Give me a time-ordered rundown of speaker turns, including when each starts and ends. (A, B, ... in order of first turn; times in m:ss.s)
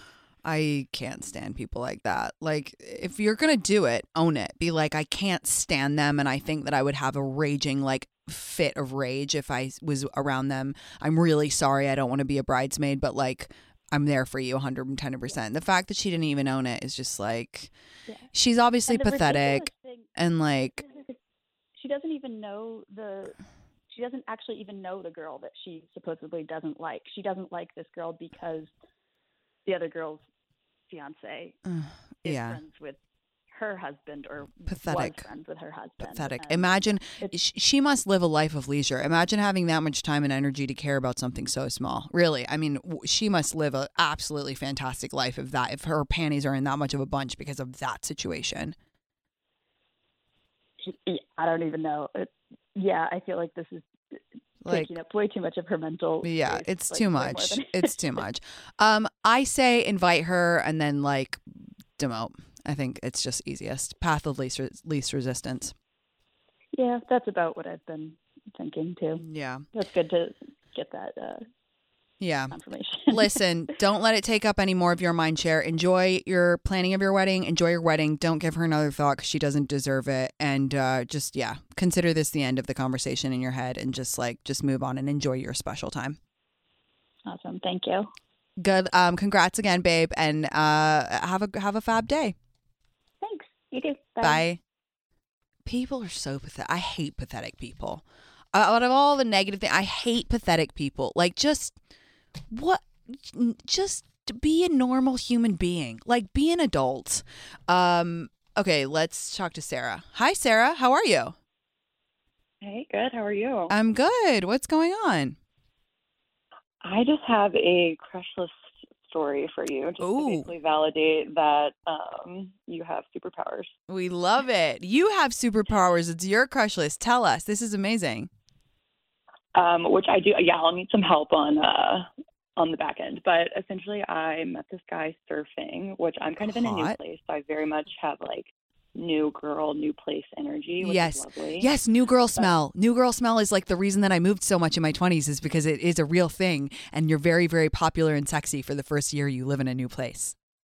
0:00.4-0:17.7 A
0:18.3-0:20.8 A
0:18.9-0:20.1 B
0:20.8-0:21.2 B
0:21.8-0:23.4 B
0:23.9-0:28.7 B
0:29.7-0:30.2 B
0:30.9-0:31.6 B
0:31.7-0:32.6 A
0:32.2-0:33.0 B
0:33.5-0:37.4 B
0:34.7-0:35.3 A
0:36.0-0:48.8 A
0:50.9-0:53.9 B
0:54.6-0:54.9 A
0:54.7-0:58.1 B
0:56.2-1:01.4 A
1:02.0-1:05.7 A
1:06.8-1:09.2 B
1:09.2-1:09.6 A
1:09.7-1:11.4 B
1:12.2-1:12.6 A
1:12.5-1:13.4 B
1:13.1-1:26.2 A
1:27.3-1:28.1 B
1:28.6-1:32.4 A
1:33.2-1:34.5 B
1:34.2-1:34.6 A
1:35.7-1:38.0 A
1:38.5-1:41.8 A
1:42.5-1:51.4 A
1:52.6-1:53.7 C
1:53.7-1:55.4 A
1:56.8-2:03.7 C
2:00.0-2:00.5 A
2:03.9-2:08.3 A
2:09.6-2:21.7 C
2:16.4-2:17.0 A
2:20.8-2:30.4 A